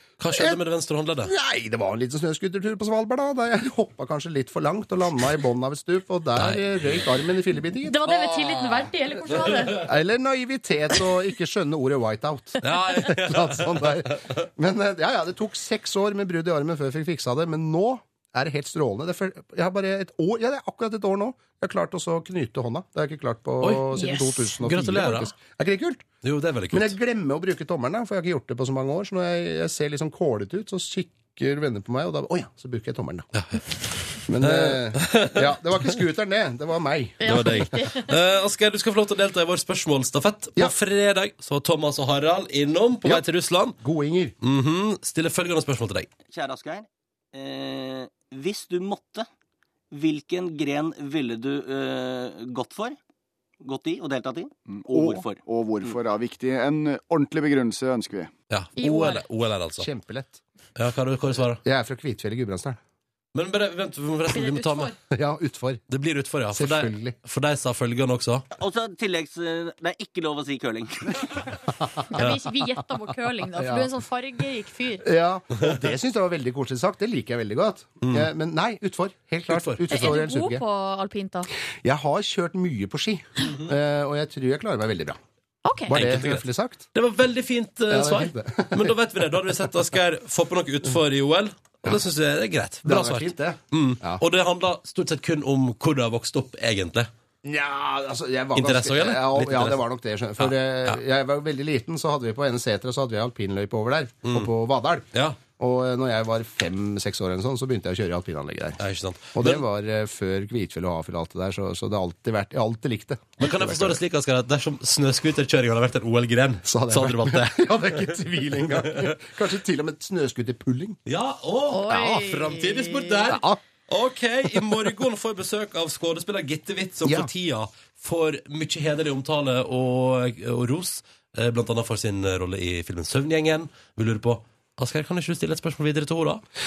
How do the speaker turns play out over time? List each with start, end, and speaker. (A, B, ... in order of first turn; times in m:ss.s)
0:00.2-0:01.3 A
0:00.3-0:00.6 B
0:01.2-0:08.0 B
0:06.4-0:07.1 A
0:07.8-0:09.9 C
0:08.1-0:09.8 A
0:09.8-0:26.1 B
0:12.6-0:14.3 A
0:23.6-0:25.3 A
0:26.2-0:26.9 A
0:26.7-0:33.3 B
0:33.3-0:35.5 A
0:34.3-0:37.6 B
0:37.2-0:38.1 C
0:37.2-0:43.8 A
0:43.8-0:44.3 B
0:44.4-0:46.1 A
0:46.3-0:49.3 D
0:49.9-0:53.0 D
0:53.6-0:56.0 D
0:54.7-0:58.3 E
0:58.5-0:59.9 A
0:58.8-0:59.2 C
0:59.8-1:00.4 B
1:00.8-1:01.6 A
1:01.6-1:02.8 B
1:03.3-1:04.9 A
1:04.3-1:05.0 C
1:05.1-1:05.8 B
1:05.9-1:08.4 A
1:06.5-1:07.2 B
1:08.5-1:11.4 D
1:12.1-1:15.0 C
1:13.6-1:13.9 B
1:15.0-1:20.6 B
1:19.5-1:20.1 A
1:19.9-1:21.5 C
1:21.8-1:25.2 B
1:25.6-1:26.0 C
1:25.9-1:26.9 B
1:25.9-1:37.1 A
1:27.9-1:28.9 B
1:32.8-1:34.2 B
1:37.4-1:48.8 B
1:38.5-1:39.8 A
1:40.4-1:41.0 A
1:45.1-1:45.4 A
1:48.8-1:49.6 A
1:49.3-1:54.0 B
1:53.4-1:58.1 A
1:56.6-2:01.0 B
2:01.0-2:16.4 A
2:01.7-2:03.3 C
2:03.3-2:03.6 B